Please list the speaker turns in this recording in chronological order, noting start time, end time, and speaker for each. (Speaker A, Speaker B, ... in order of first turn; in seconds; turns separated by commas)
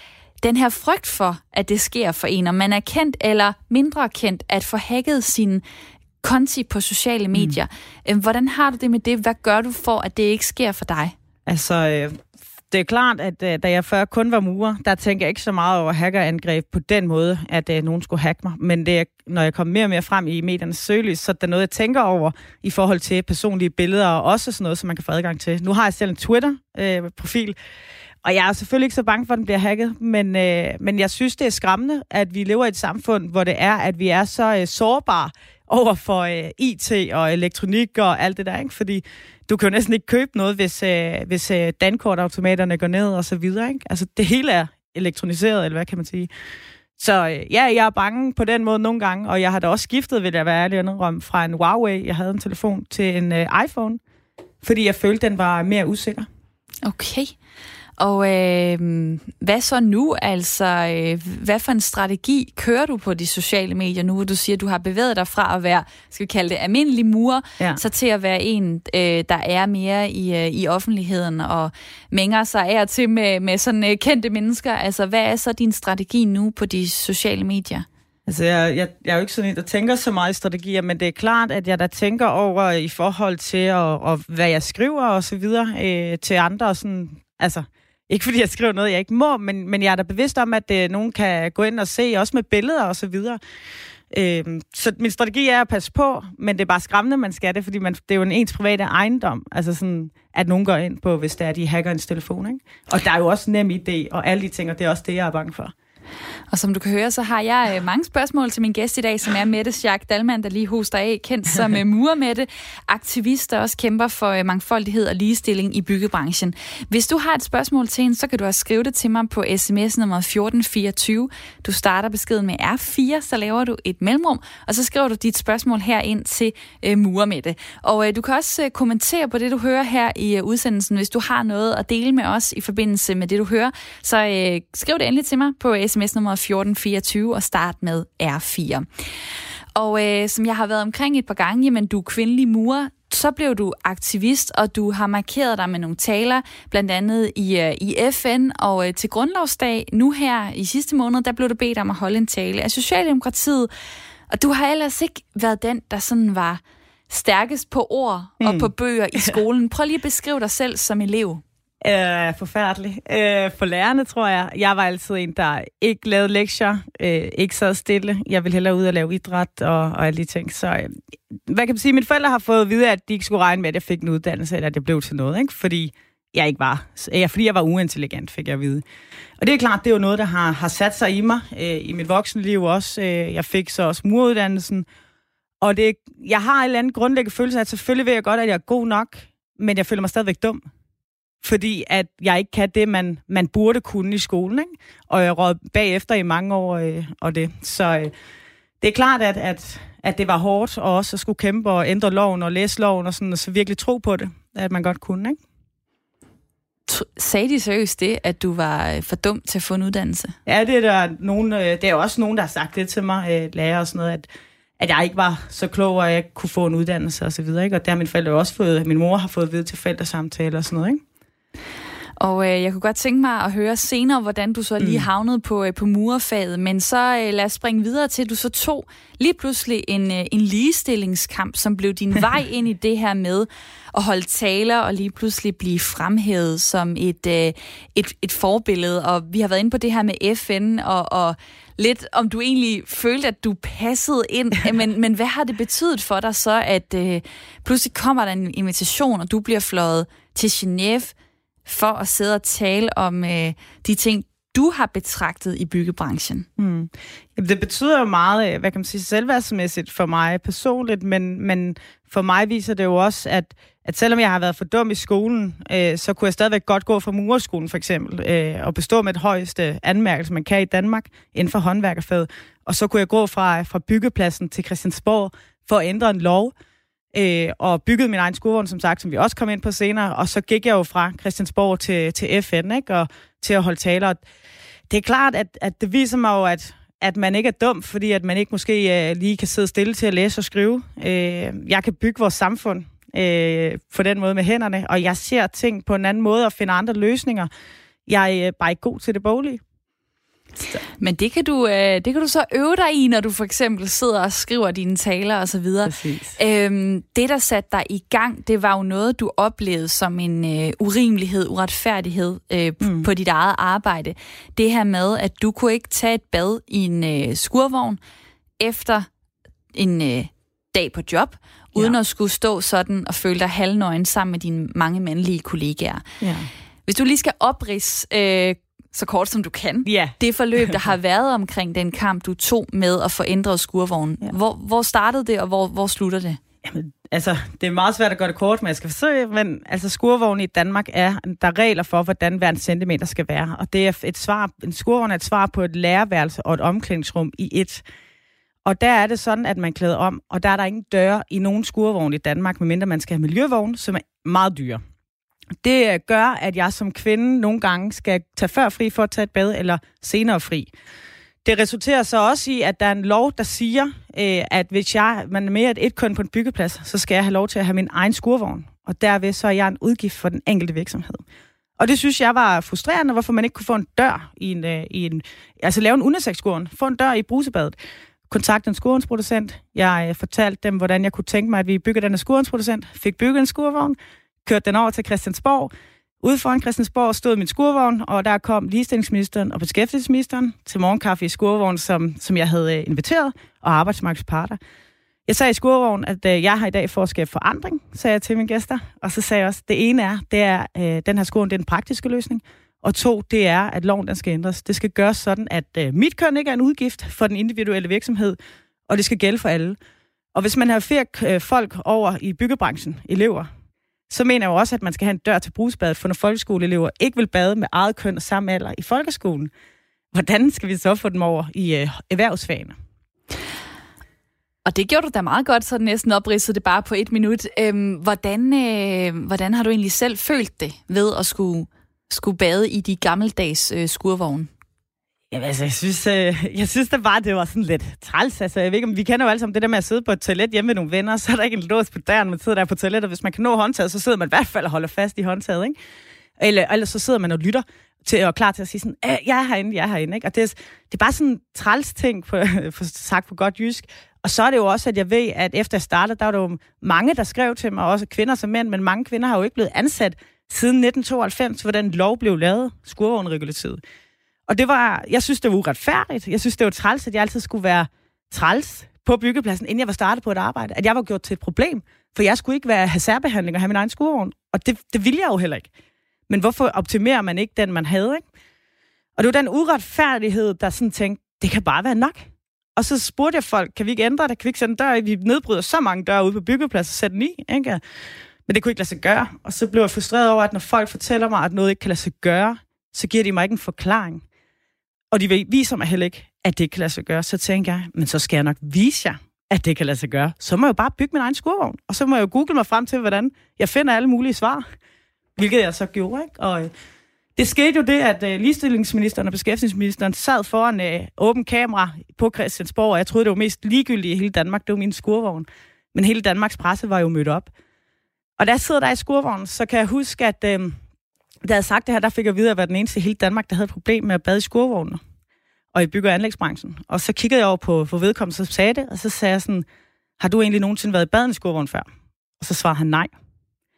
Speaker A: 0.4-5.6, Speaker A: 6.2-11.1, Speaker B: 11.5-27.6, Speaker B: 28.2-46.3, Speaker B: 47.0-54.0, Speaker B: 54.6-56.3, Speaker A: 56.9-57.4, Speaker A: 58.0-77.9, Speaker B: 78.3-93.4, Speaker B: 94.1-105.7, Speaker A: 106.5-138.9, Speaker A: 139.8-153.7, Speaker A: 154.3-161.4, Speaker B: 158.4-159.4, Speaker B: 161.8-178.8, Speaker B: 179.4-184.9, Speaker B: 185.6-190.6, Speaker B: 191.4-198.1, Speaker B: 198.8-205.4, Speaker A: 206.9-210.3, Speaker B: 210.5-214.3, Speaker B: 214.8-221.0, Speaker A: 222.2-251.1, Speaker B: 224.8-225.1, Speaker A: 251.7-256.5, Speaker B: 256.6-276.5, Speaker B: 277.1-284.2, Speaker B: 284.9-297.5, Speaker B: 298.1-299.6, Speaker A: 301.0-318.0, Speaker B: 305.9-306.4, Speaker B: 312.8-313.1, Speaker A: 318.6-319.1, Speaker A: 319.7-326.0, Speaker B: 326.2-326.5, Speaker A: 326.9-336.4, Speaker B: 329.9-330.8, Speaker B: 336.6-347.8, Speaker B: 348.6-354.8, Speaker B: 355.6-360.7, Speaker B: 361.4-371.2, Speaker B: 371.8-377.8, Speaker B: 378.3-385.7, Speaker B: 386.2-394.6, Speaker B: 395.3-408.4, Speaker B: 408.9-409.8, Speaker B: 410.3-413.5, Speaker B: 414.1-419.5, Speaker B: 420.1-422.8, Speaker A: 424.7-434.5, Speaker B: 435.3-445.8, Speaker B: 446.4-463.8, Speaker B: 464.5-475.7, Speaker B: 476.3-478.2, Speaker B: 479.2-487.8, Speaker B: 488.5-494.2, Speaker B: 495.1-504.6, Speaker B: 505.4-506.7, Speaker B: 507.4-517.5, Speaker B: 518.4-520.8, Speaker B: 521.4-525.0, Speaker B: 525.7-529.7, Speaker B: 530.2-531.9, Speaker B: 532.4-533.1